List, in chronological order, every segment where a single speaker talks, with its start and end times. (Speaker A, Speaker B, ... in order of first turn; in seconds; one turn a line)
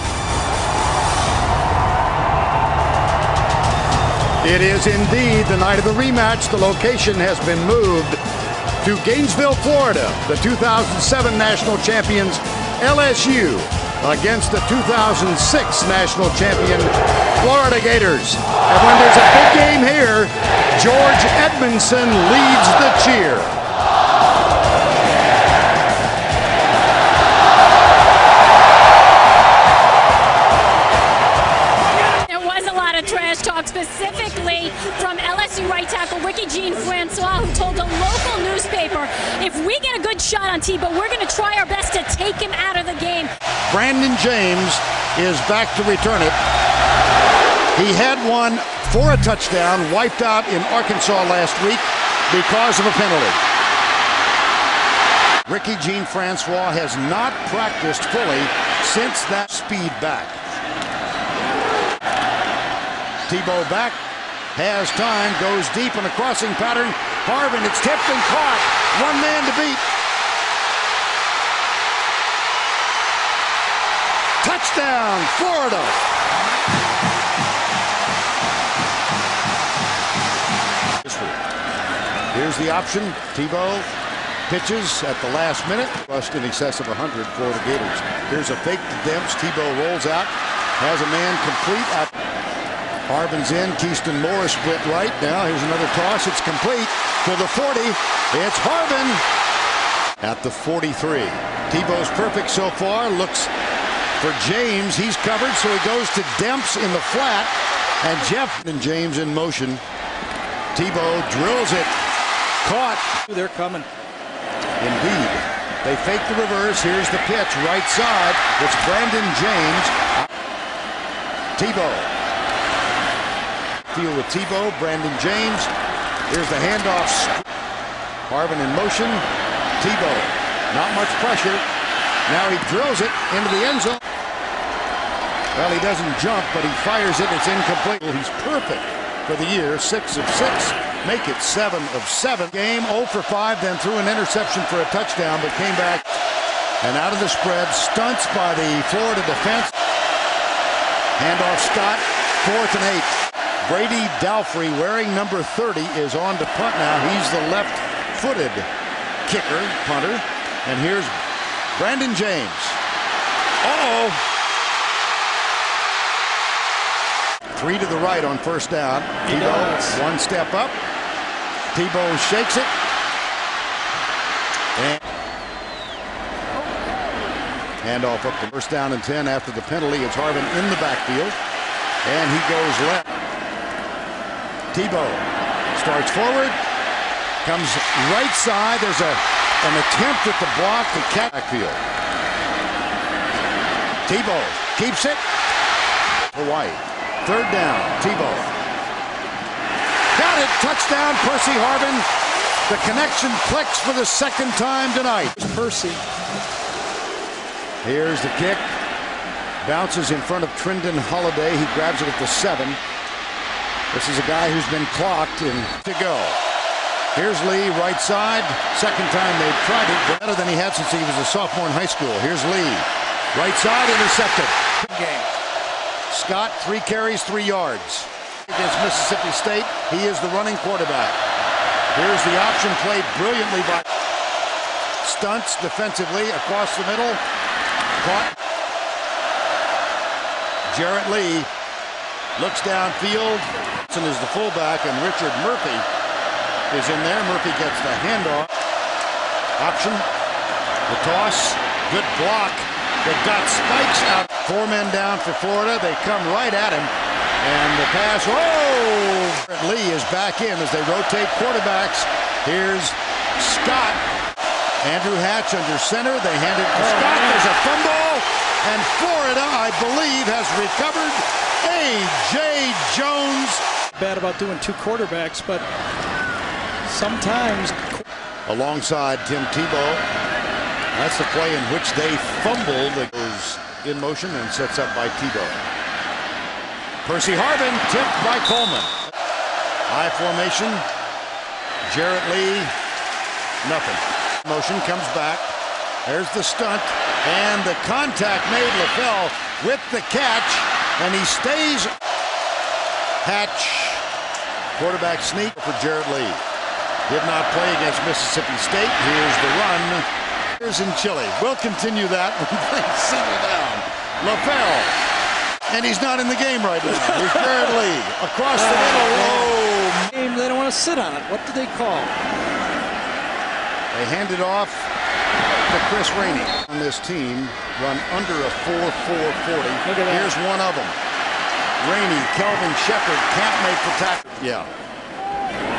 Speaker A: 4.4-8.2
Speaker A: 8.8-23.6
Speaker B: 32.0-43.3
Speaker A: 43.7-46.4
Speaker A: 47.7-53.4
Speaker A: 55.5-60.4
Speaker A: 63.3-64.0
Speaker A: 64.5-69.8
Speaker A: 74.4-76.0
Speaker A: 81.0-81.4
Speaker A: 82.3-83.9
Speaker A: 84.5-92.1
Speaker A: 93.1-99.2
Speaker A: 100.2-103.5
Speaker A: 104.2-109.8
Speaker A: 110.7-111.9
Speaker A: 112.6-113.1
Speaker C: 113.2-113.9
Speaker A: 114.8-120.2
Speaker A: 121.6-122.1
Speaker A: 123.9-125.7
Speaker A: 126.3-127.4
Speaker A: 128.3-129.2
Speaker A: 129.8-131.6
Speaker A: 132.3-134.0
Speaker A: 135.5-146.2
Speaker A: 146.8-149.7
Speaker A: 151.2-158.7
Speaker A: 159.2-161.1
Speaker A: 161.7-162.8
Speaker A: 163.6-164.2
Speaker A: 167.5-170.8
Speaker C: 169.2-170.0
Speaker A: 171.7-172.7
Speaker A: 174.8-175.0
Speaker A: 177.8-181.4
Speaker A: 182.0-183.1
Speaker A: 184.7-186.6
Speaker A: 187.4-191.8
Speaker A: 194.1-195.2
Speaker A: 196.3-198.5
Speaker A: 200.1-202.1
Speaker A: 202.7-205.4
Speaker C: 205.3-206.0
Speaker A: 207.8-208.6
Speaker A: 209.6-212.8
Speaker A: 213.9-216.4
Speaker A: 217.1-225.3
Speaker A: 226.1-231.2
Speaker A: 231.9-233.8
Speaker A: 235.0-237.2
Speaker A: 238.0-238.3
Speaker A: 240.7-241.5
Speaker A: 242.3-245.8
Speaker A: 246.7-248.5
Speaker A: 249.6-250.1
Speaker A: 250.9-264.0
Speaker A: 264.8-273.6
Speaker C: 266.7-267.5
Speaker C: 273.9-275.7
Speaker C: 276.8-278.0
Speaker A: 278.4-280.0
Speaker A: 280.9-285.6
Speaker A: 287.0-288.9
Speaker A: 289.9-290.8
Speaker A: 291.8-292.7
Speaker A: 293.6-295.5
Speaker A: 296.0-301.9
Speaker A: 303.2-304.0
Speaker A: 304.8-306.4
Speaker A: 307.1-310.0
Speaker A: 310.6-315.0
Speaker A: 315.7-320.1
Speaker C: 316.9-317.7
Speaker C: 318.5-322.1
Speaker A: 323.9-324.9
Speaker A: 325.7-330.9
Speaker C: 329.8-330.4
Speaker A: 331.8-334.7